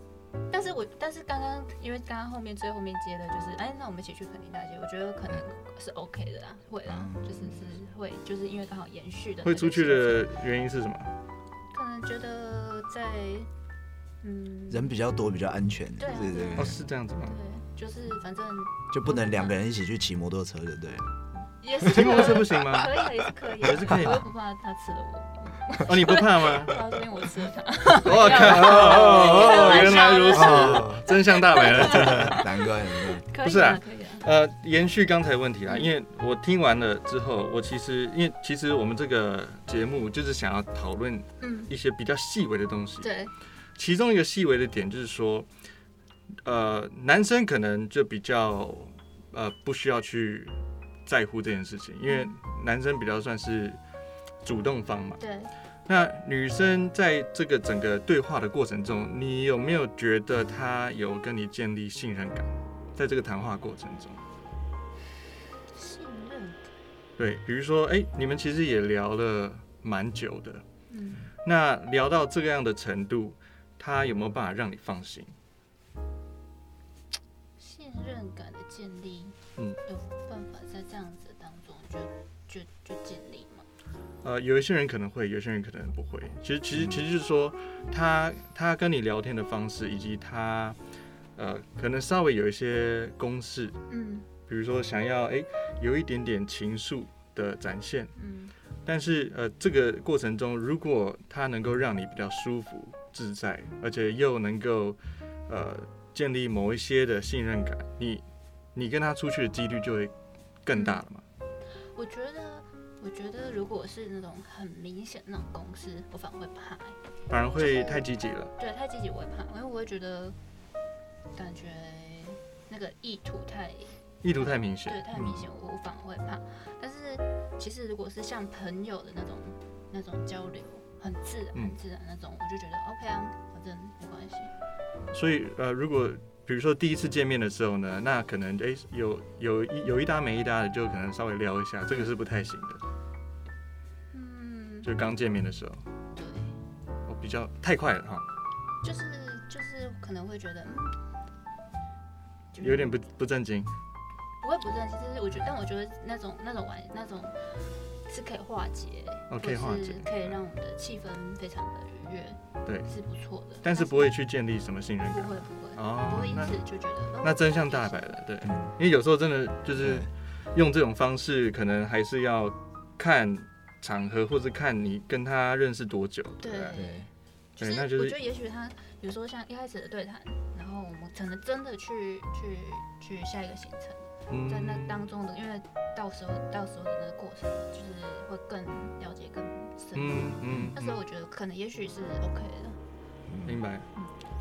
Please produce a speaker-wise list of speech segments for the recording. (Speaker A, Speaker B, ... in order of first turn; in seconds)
Speaker A: 0.5-10.3, 11.7-13.5, 14.2-14.9, 16.0-19.6, 21.6-34.2, 35.7-35.9, 41.4-41.7, 43.0-43.3, 52.1-52.4, 55.2-55.5, 65.7-66.7, 70.9-71.3, 77.6-83.7, 93.9-94.3, 98.2-98.5, 110.7-111.0, 111.9-117.0, 117.6-118.1, 118.6-120.4, 121.3-124.0, 124.8-134.5, 144.1-144.9, 146.1-146.6, 148.8-151.0, 152.5-153.0, 154.4-164.1, 165.1-168.2, 176.4-192.8
Speaker B: 6.9-7.6, 14.7-16.8, 18.9-21.1, 28.3-33.2, 86.7-87.0, 166.0-166.6, 168.4-168.7, 169.8-170.1, 176.7-177.1, 190.5-190.8, 193.3-193.6
Speaker C: 9.4-11.1, 16.5-17.4, 21.8-23.0, 23.6-24.3, 25.8-26.8, 27.9-32.5, 33.4-43.1, 43.8-45.5, 46.4-53.8, 54.4-55.2, 55.9-64.2, 67.2-70.6, 71.4-75.3, 84.2-90.8, 91.3-93.8, 94.5-98.1, 98.8-108.2, 108.7-111.2, 117.3-118.5, 124.2-125.3, 135.1-142.8, 144.8-145.8, 147.1-148.2, 152.6-153.7, 159.3-160.4, 162.7-162.9, 163.6-166.6, 167.2-176.8, 177.6-178.2, 184.3-185.0, 189.9-191.0, 193.4-193.9